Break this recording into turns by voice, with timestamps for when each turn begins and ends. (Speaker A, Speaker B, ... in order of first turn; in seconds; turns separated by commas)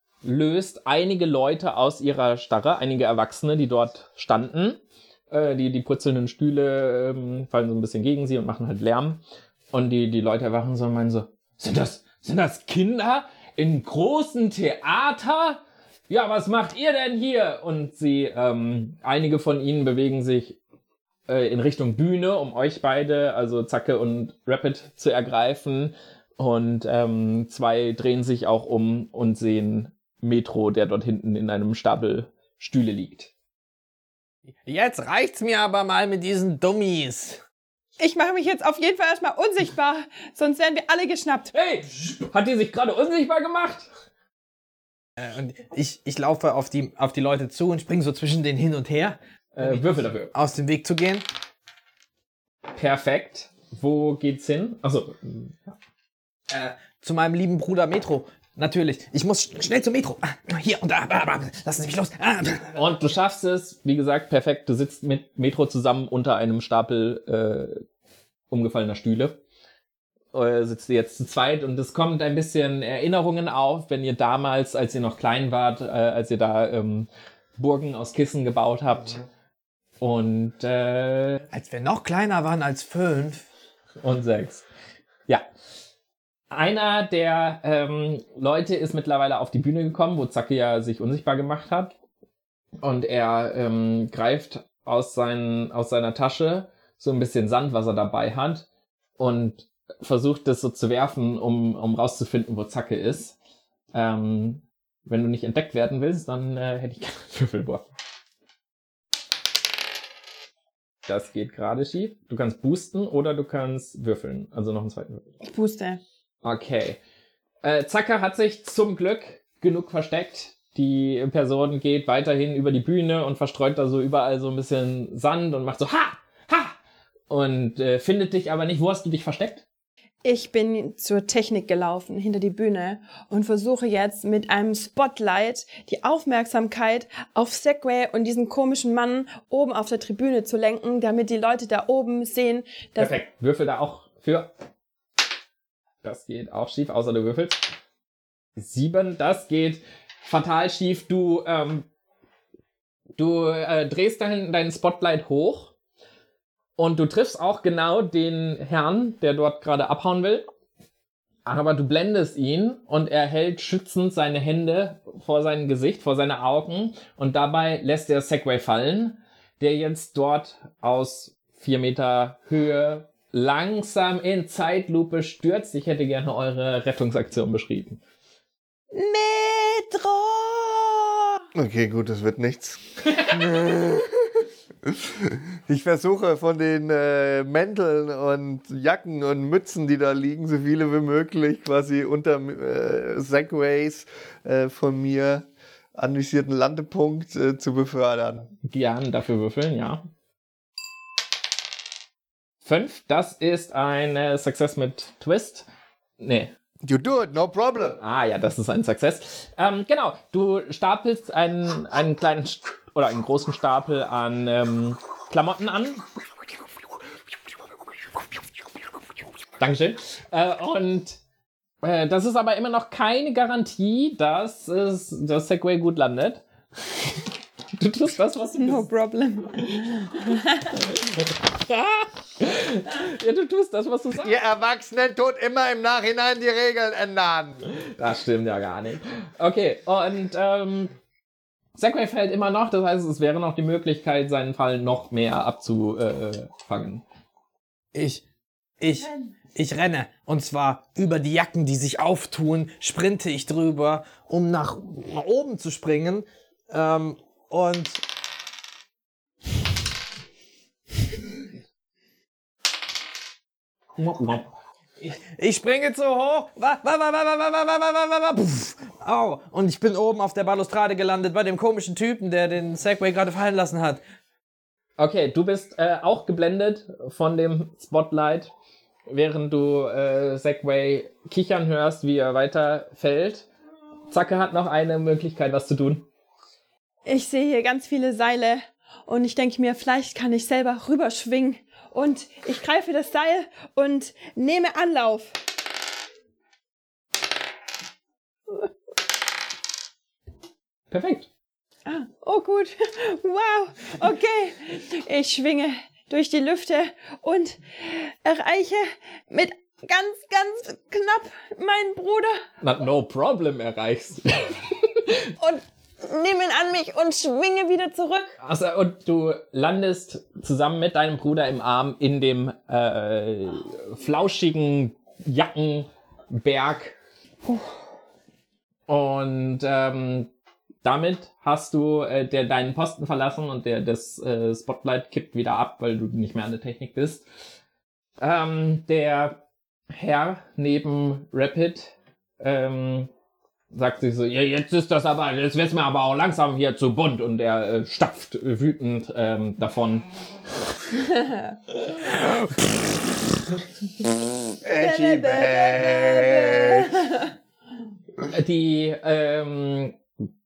Speaker A: 0.2-20.6, Speaker A: 21.3-33.3, Speaker B: 34.6-37.4, Speaker C: 38.0-41.5, Speaker A: 41.5-43.9, Speaker B: 45.2-51.2, Speaker A: 49.5-50.3, Speaker A: 52.7-55.8, Speaker B: 56.5-62.8, Speaker A: 62.7-67.8, Speaker A: 68.5-69.4, Speaker A: 70.3-79.2, Speaker A: 80.0-81.4, Speaker B: 81.5-83.4, Speaker A: 84.0-84.6, Speaker A: 86.5-91.9, Speaker A: 92.8-98.7, Speaker A: 99.2-103.4, Speaker A: 103.9-107.9, Speaker A: 111.0-115.3, Speaker C: 115.4-116.0, Speaker A: 116.4-117.0, Speaker A: 117.6-126.8, Speaker A: 127.3-129.6, Speaker C: 130.2-143.1, Speaker A: 143.0-144.5, Speaker A: 146.0-147.7, Speaker A: 148.6-151.9, Speaker A: 153.2-155.7, Speaker A: 156.8-160.4, Speaker A: 161.4-178.0, Speaker C: 178.9-181.4, Speaker D: 181.6-198.5, Speaker A: 198.6-200.1, Speaker A: 202.6-205.7, Speaker A: 206.2-206.6, Speaker D: 206.8-208.0, Speaker A: 208.0-216.0, Speaker A: 219.6-221.2, Speaker A: 221.8-227.2, Speaker A: 227.8-228.9, Speaker C: 228.6-230.8, Speaker A: 230.8-234.4, Speaker D: 234.2-237.6, Speaker A: 237.7-240.9, Speaker A: 241.8-247.0, Speaker B: 247.9-248.2, Speaker B: 248.8-258.0, Speaker C: 249.0-249.3, Speaker A: 263.9-264.5, Speaker B: 265.0-274.0, Speaker A: 275.0-278.5, Speaker A: 279.1-283.5, Speaker A: 284.1-286.1, Speaker C: 287.1-295.3, Speaker A: 300.9-301.3, Speaker C: 301.8-312.4, Speaker A: 312.6-315.2, Speaker C: 315.4-318.3, Speaker A: 318.4-326.9, Speaker A: 328.9-330.3, Speaker A: 330.8-337.2, Speaker A: 338.2-339.4, Speaker A: 339.9-343.1, Speaker A: 343.7-350.1, Speaker C: 351.0-351.6, Speaker B: 352.1-353.1, Speaker D: 354.6-357.1, Speaker C: 354.8-357.3, Speaker A: 358.2-360.0